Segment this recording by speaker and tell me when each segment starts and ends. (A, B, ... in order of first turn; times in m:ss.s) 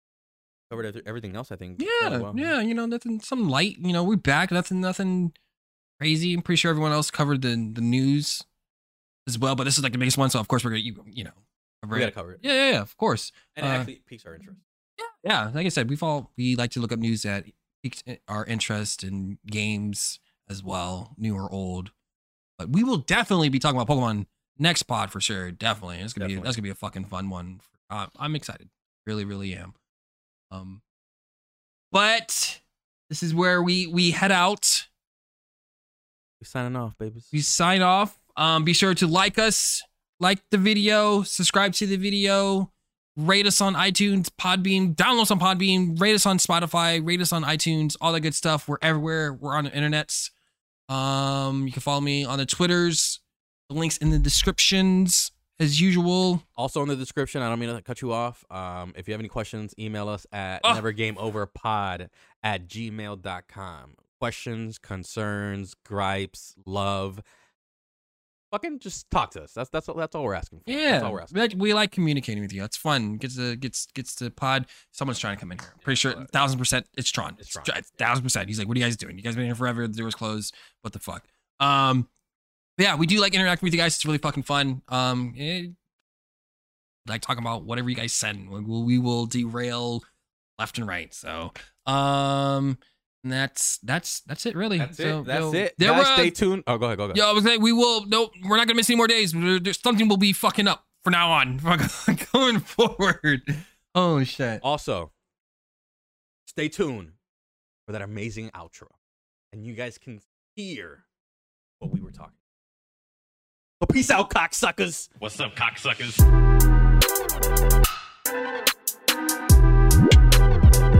0:00.7-0:02.5 A
0:01.8-0:05.4 B
0:06.0-0:08.5 B
0:09.3-0:13.9 B
0:11.9-0:12.4 A
0:13.6-0:14.6 A
0:15.0-0:21.9 B
0:22.6-0:29.8 B
0:26.2-0:26.5 A
0:30.5-0:30.8 B
0:31.9-0:34.9 B
0:36.4-0:37.3 A
0:37.3-0:50.3 B
0:50.9-0:56.4 B
0:56.6-1:07.2 A
1:08.5-1:11.3 A
1:10.7-1:22.1 B
1:15.8-1:16.3 A
1:17.4-1:17.8 A
1:22.8-1:25.8 B
1:27.1-1:30.0 B
1:30.6-1:36.4 B
1:34.8-1:37.2 A
1:37.1-1:44.6 B
1:44.6-1:45.1 A
1:46.5-1:47.2 A
1:47.9-1:49.0 A
1:49.5-1:51.0 A
1:51.8-1:52.4 A
1:53.8-1:56.2 A